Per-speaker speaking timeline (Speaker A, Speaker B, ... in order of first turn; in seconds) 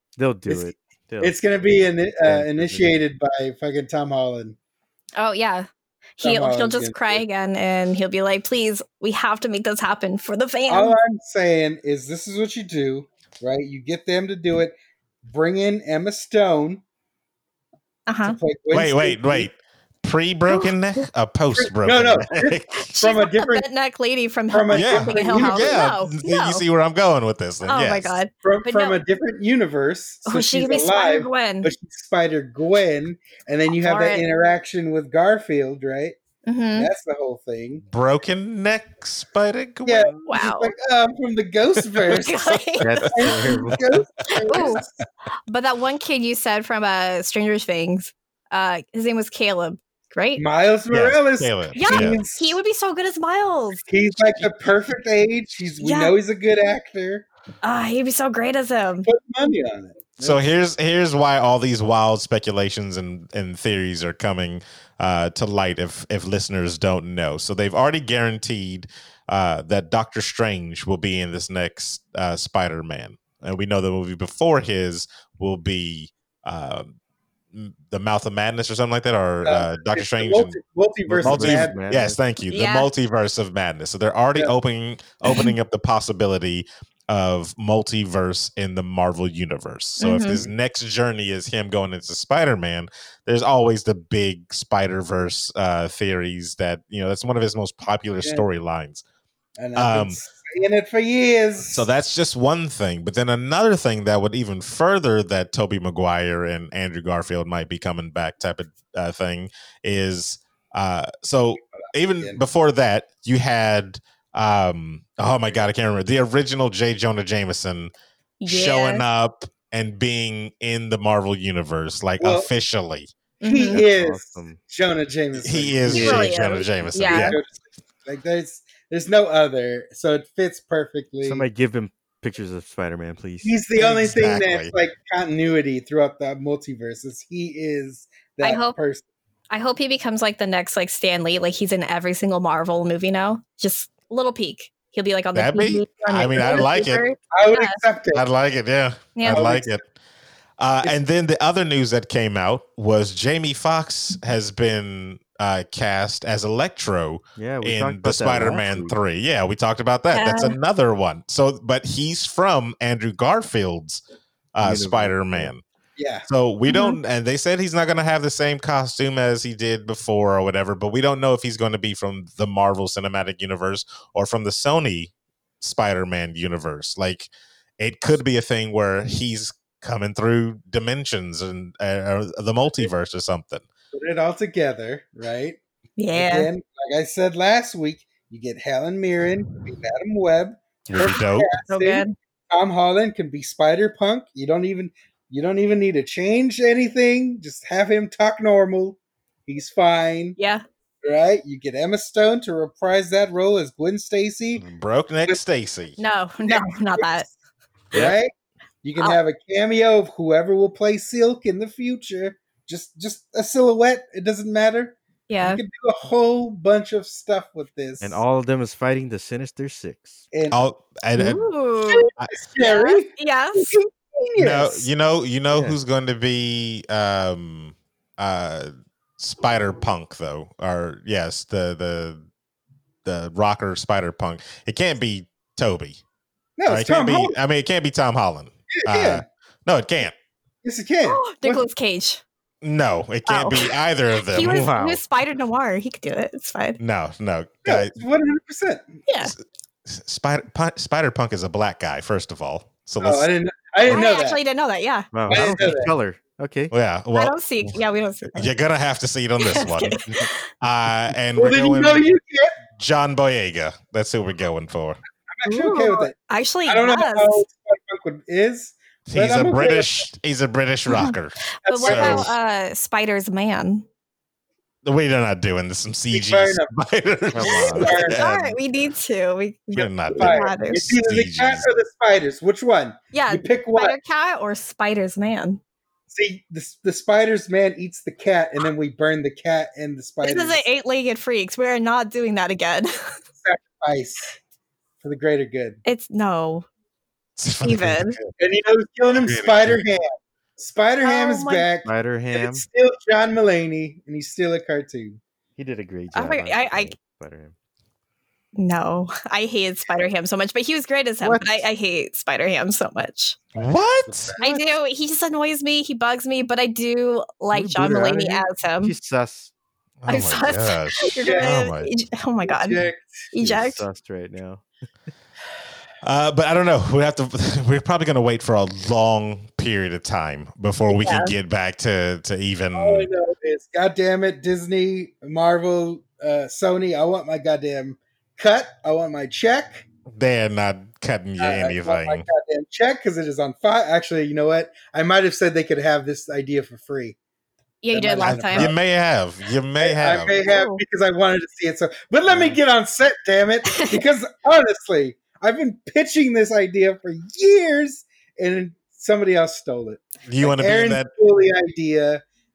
Speaker A: 0.2-1.4, 2.2-3.0, 42.8-43.9, 81.1-82.2, 123.7-124.6, 131.2-133.5, 157.4-158.9, 164.6-165.5, 218.0-220.2, 225.5-225.8, 244.4-245.0, 255.1-256.7, 277.3-277.9, 301.8-302.6, 305.6-307.5, 311.2-311.6, 317.5-319.5, 323.4-324.6
Speaker B: 0.5-4.5, 6.2-7.2, 10.7-16.8, 18.2-19.5, 21.6-23.6, 24.5-25.8, 28.4-36.2, 36.7-37.8, 39.8-42.6, 43.1-44.9, 50.4-52.6, 53.8-57.3, 59.0-60.4, 79.4-81.8, 90.3-90.5, 98.2-98.5, 99.6-101.8, 122.2-122.5, 123.4-131.4, 133.4-139.0, 147.3-148.2, 149.3-149.8, 166.0-166.3, 183.9-185.6, 186.1-200.4, 201.0-204.6, 206.4-207.2, 207.9-208.3, 208.8-218.2, 220.3-220.6, 221.9-224.9, 236.6-237.3, 238.7-239.2, 240.6-241.6, 247.6-249.0, 253.0-254.4, 255.3-255.9, 261.4-262.6, 265.4-266.1, 266.7-270.0, 271.6-272.3, 276.1-276.7, 277.4-278.2, 280.1-284.0, 286.1-290.6, 293.4-294.3, 295.0-295.8, 298.4-305.2, 313.5-314.6, 321.2-321.6, 322.4-323.1, 332.7-339.8, 341.4-347.2, 347.9-348.7, 349.8-362.2
Speaker C: 5.2-5.7, 6.2-11.0, 18.1-18.4, 22.9-26.6, 27.6-29.0, 30.2-31.7, 33.7-34.2, 36.5-36.9, 40.3-40.7, 42.1-43.3, 44.4-44.8, 45.5-50.4, 51.7-53.8, 55.8-56.1, 57.6-59.1, 82.5-82.9, 90.0-90.4, 118.4-119.0, 123.4-123.8, 125.9-127.4, 138.4-138.8, 139.5-147.8, 149.2-149.4, 160.1-160.6, 166.7-167.0, 186.0-186.5, 191.7-192.1, 200.4-200.6, 206.0-207.3, 215.3-215.6, 221.2-222.1, 222.6-223.8, 241.0-242.2, 243.3-243.7, 244.3-246.8, 249.1-249.3, 253.8-255.5, 257.1-258.5, 259.4-260.3, 265.4-267.4, 270.9-273.9, 277.7-280.9, 283.1-285.6, 290.2-293.2, 295.8-296.7, 297.6-298.2, 301.0-301.7, 306.1-306.9, 308.6-313.4, 314.4-318.9, 320.1-322.8, 323.3-323.8, 330.9-331.3, 347.8-348.7, 350.5-350.8
Speaker D: 18.7-22.9, 24.7-28.2, 37.9-40.2, 50.9-52.2, 60.2-76.9, 77.5-80.5, 81.2-99.0, 99.8-100.2, 101.7-117.9, 118.5-123.1, 125.4-127.4, 133.8-134.7, 145.3-147.0, 148.1-149.8, 150.6-164.0, 164.5-165.6, 166.3-183.6, 190.9-191.5, 204.6-206.0, 220.5-221.4, 224.4-232.2, 233.0-236.0, 236.7-240.1, 242.6-244.7, 246.8-247.9, 249.2-253.3, 256.7-257.8, 258.3-260.0, 260.6-262.1, 262.8-265.0, 269.1-272.3, 274.8-278.6, 279.7-281.7, 297.4-298.3, 299.1-299.8, 313.6-314.4, 320.0-321.9, 326.0-333.1, 340.1-342.2, 348.2-350.4, 352.3-352.6, 360.2-361.1